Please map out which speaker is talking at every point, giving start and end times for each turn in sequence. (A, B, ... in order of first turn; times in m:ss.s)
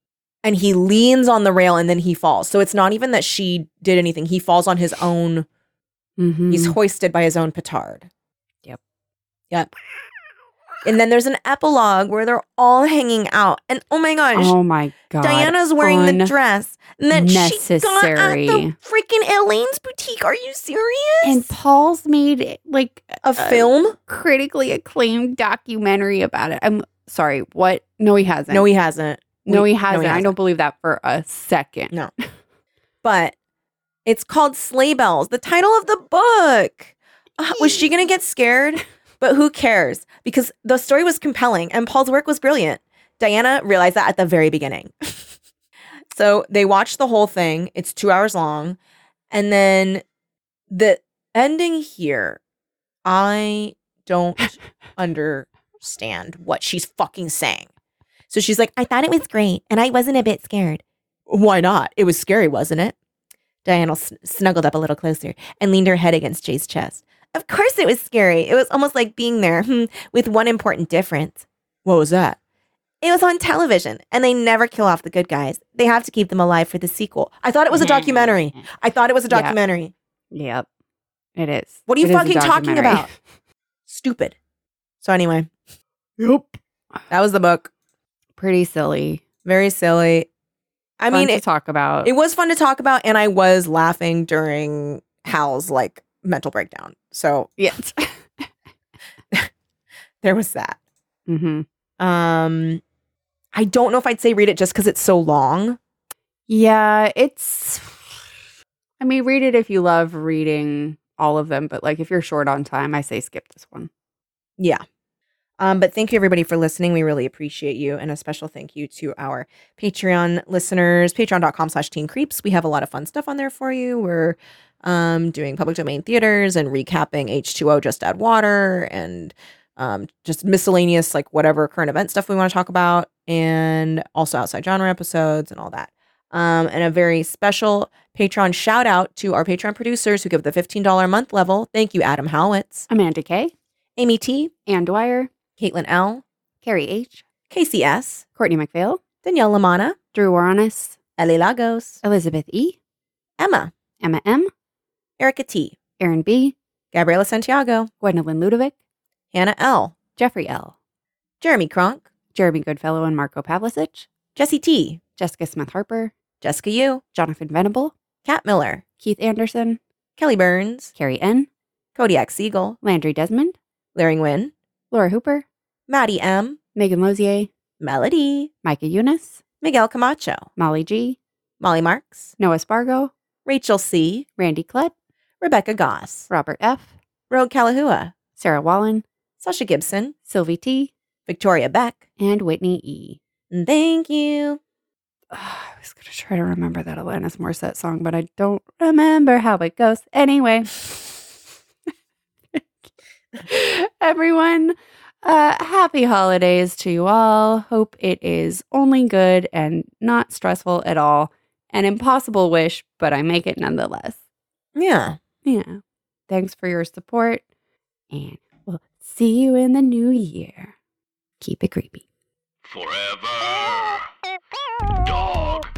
0:00.4-0:05.5 A
0:06.2-0:06.8 B
0:06.5-0:08.1 A
0:10.8-0:14.6 A
0:14.3-0:16.3 B
0:15.2-0:21.5 A
0:17.1-0:18.8 B
0:21.2-0:28.7 B
0:23.2-0:24.0 A
0:28.5-0:30.3 A
0:29.4-0:31.9 B
0:33.0-0:33.4 A
0:34.1-0:45.2 A
0:46.1-0:48.8 A
0:49.3-0:50.0 A
0:50.7-0:52.4 A
0:53.0-0:57.7 A
0:58.3-1:03.0 A
1:03.6-1:12.4 A
1:13.0-1:19.9 A
1:17.7-1:18.7 B
1:19.3-1:19.6 B
1:20.3-1:20.7 B
1:21.4-1:23.1 B
1:21.9-1:23.1 A
1:23.9-1:24.4 A
1:25.0-1:25.5 A
1:26.2-1:26.6 B
1:27.1-1:27.7 A
1:28.4-1:29.2 B
1:29.4-1:30.3 A
1:31.0-1:31.4 A
1:31.1-1:32.1 B
1:32.0-1:37.5 A
1:37.6-1:38.5 B
1:40.2-1:40.8 A
1:41.3-1:41.6 B
1:42.0-1:42.8 A
1:43.5-1:45.8 A
1:46.5-1:48.0 B
1:49.0-1:53.9 B
1:55.6-2:22.9 A
2:22.9-2:23.5 B
2:24.0-2:24.5 A
2:24.7-2:25.3 B
2:25.6-2:26.2 A
2:26.6-2:27.2 B
2:27.5-2:28.2 A
2:28.4-2:29.0 B
2:29.2-2:30.0 A
2:30.1-2:31.0 B
2:31.2-2:32.0 A
2:32.0-2:32.8 B
2:33.4-2:33.7 A
2:34.0-2:34.5 B
2:35.2-2:35.8 A
2:36.0-2:36.6 B
2:36.9-2:37.9 A
2:38.0-2:38.8 B
2:39.3-2:40.0 A
2:40.2-2:40.7 B
2:41.4-2:42.1 A
2:42.3-2:44.1 B
2:44.4-2:45.0 A
2:45.2-2:46.1 B
2:46.4-2:47.0 A
2:47.1-2:47.9 B
2:48.2-2:48.8 A
2:49.0-2:49.8 B
2:50.2-2:50.9 A
2:51.0-2:51.5 B
2:52.0-2:52.8 A
2:52.8-2:53.6 B
2:54.0-2:54.5 A
2:54.9-2:55.4 B
2:55.9-2:56.6 A
2:56.8-2:57.5 B
2:57.8-2:58.5 A
2:58.6-2:59.4 B
2:59.6-3:00.5 A
3:00.6-3:01.2 B
3:01.6-3:02.3 A
3:02.4-3:03.1 B
3:03.5-3:04.3 A
3:04.4-3:04.9 B
3:05.4-3:06.3 A
3:06.3-3:06.9 B
3:07.3-3:08.1 A
3:08.4-3:09.0 B
3:09.4-3:10.1 A
3:10.3-3:10.9 B
3:11.3-3:12.0 A
3:12.2-3:13.2 B
3:13.5-3:14.6 A
3:15.3-3:21.2 B
3:23.4-3:34.2 B
3:34.8-3:35.2 A
3:35.4-3:37.4 B
3:38.1-3:40.7 B
3:41.4-3:42.0 B
3:42.6-3:44.0 C
3:45.0-3:45.7 C